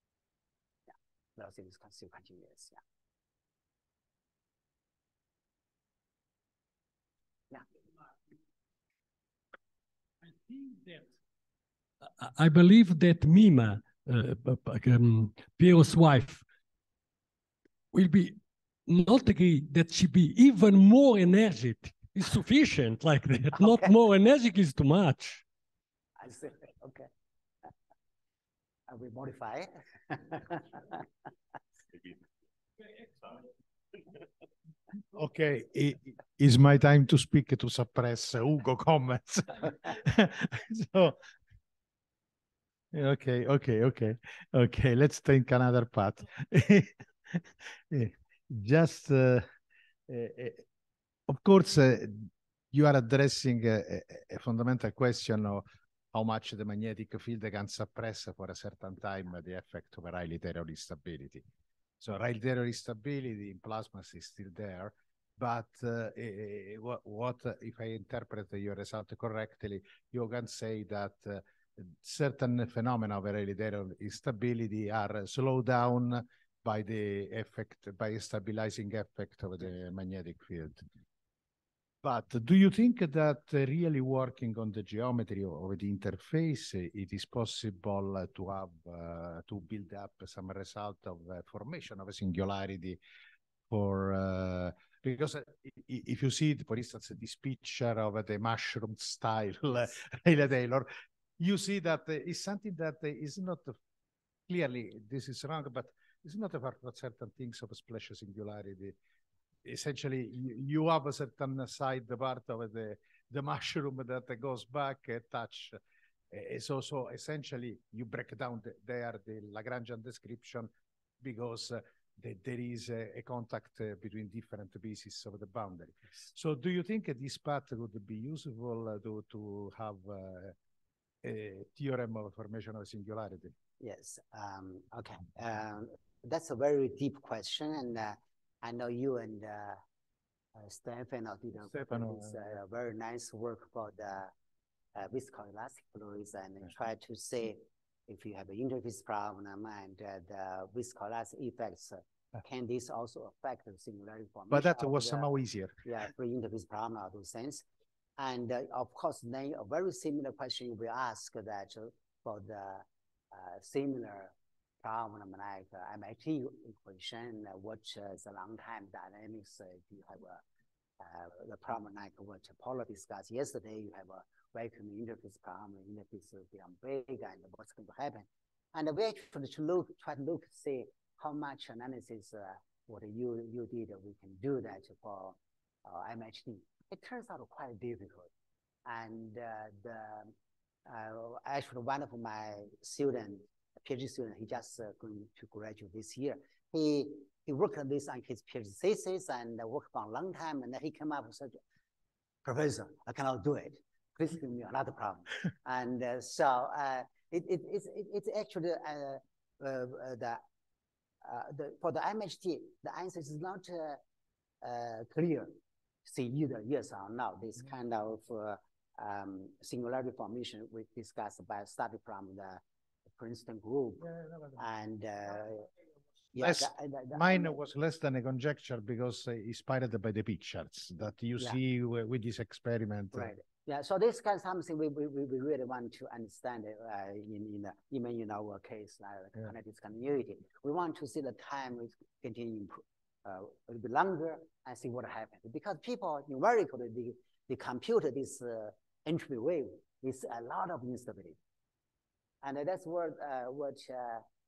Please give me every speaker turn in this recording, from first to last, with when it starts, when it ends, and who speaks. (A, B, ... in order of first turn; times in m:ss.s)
0:00.9-0:02.8 A
0:12.2-0:16.4 B
0:17.9-0:25.4 B
0:26.2-0:27.1 A
0:28.9-0:31.0 A
0:35.1-0:41.2 C
0:42.9-0:49.5 C
0:50.1-0:50.6 C
0:51.3-1:01.4 C
1:02.0-1:20.8 C
1:22.0-1:33.0 C
1:33.7-1:43.8 C
1:44.5-1:49.0 C
1:49.6-1:55.8 C
1:56.3-2:00.7 C
2:01.2-2:10.5 C
2:11.2-2:13.5 C
2:13.8-2:19.8 A
2:20.6-2:24.3 A
2:21.7-2:22.5 C
2:24.9-2:35.3 A
2:34.5-2:35.8 C
2:35.8-2:37.6 A
2:38.2-2:44.3 A
2:44.8-2:50.4 A
2:51.0-3:08.3 A
3:08.8-3:10.3 A
3:10.9-3:21.6 A
3:22.4-3:30.4 A
3:31.2-3:34.0 A
3:34.6-3:35.5 A
3:36.0-3:42.6 A
3:43.2-3:45.7 A
3:46.3-3:47.6 A
3:46.4-3:53.3 C
3:53.1-4:11.4 A
4:12.4-4:14.2 A